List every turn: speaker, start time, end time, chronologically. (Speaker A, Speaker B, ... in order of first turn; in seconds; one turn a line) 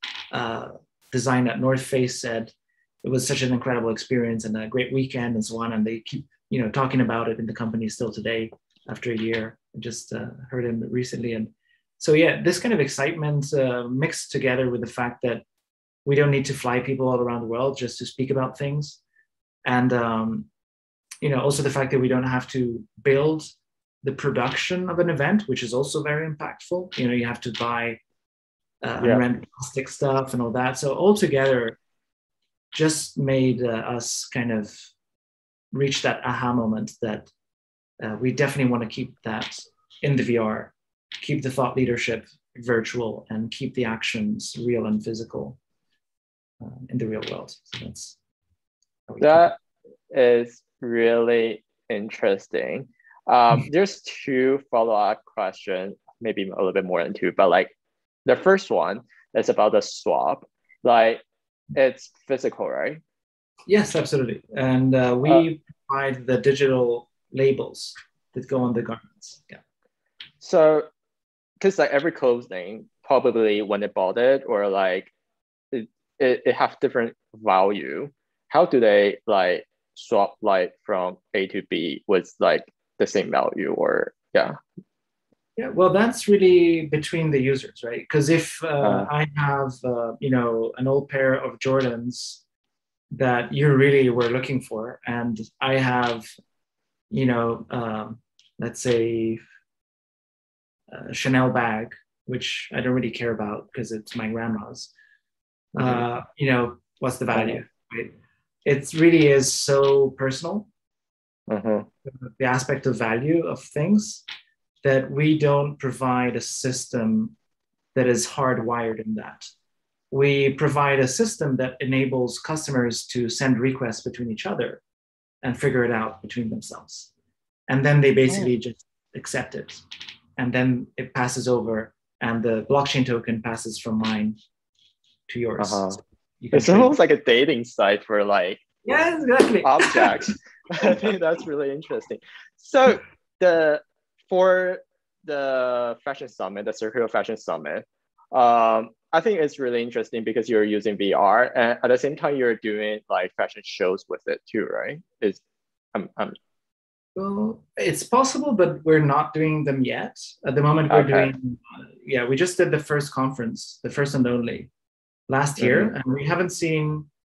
Speaker A: 0.3-15.4
Speaker A: 16.1-19.0
Speaker A: 19.6-20.5
Speaker A: 21.2-28.0
Speaker A: 28.8-31.8
Speaker A: 32.7-34.9
Speaker A: 35.7-37.3
Speaker A: 38.0-45.6
Speaker A: 46.6-48.2
Speaker A: 49.1-49.5
Speaker B: 49.2-49.6
Speaker B: 50.1-57.7
Speaker B: 58.3-61.2
Speaker B: 61.7-63.0
Speaker A: 63.7-69.6
Speaker B: 70.4-70.9
Speaker B: 71.6-75.1
Speaker B: 75.7-84.6
Speaker A: 85.6-92.4
Speaker B: 88.8-89.1
Speaker A: 93.1-96.3
Speaker A: 97.1-99.4
Speaker A: 100.9-104.9
Speaker A: 105.8-108.1
Speaker B: 105.8-106.0
Speaker A: 108.7-110.7
Speaker B: 111.5-111.9
Speaker A: 112.0-114.2
Speaker A: 114.8-117.3
Speaker A: 117.9-119.5
Speaker A: 120.1-124.8
Speaker A: 125.4-127.1
Speaker A: 127.7-129.9
Speaker A: 130.4-134.4
Speaker A: 135.3-136.9
Speaker B: 135.6-136.0
Speaker B: 136.5-138.6
Speaker A: 138.8-140.2
Speaker B: 139.6-155.4
Speaker B: 155.9-156.4
Speaker A: 157.2-164.7
Speaker B: 160.9-161.3
Speaker A: 165.3-167.1
Speaker B: 165.6-165.9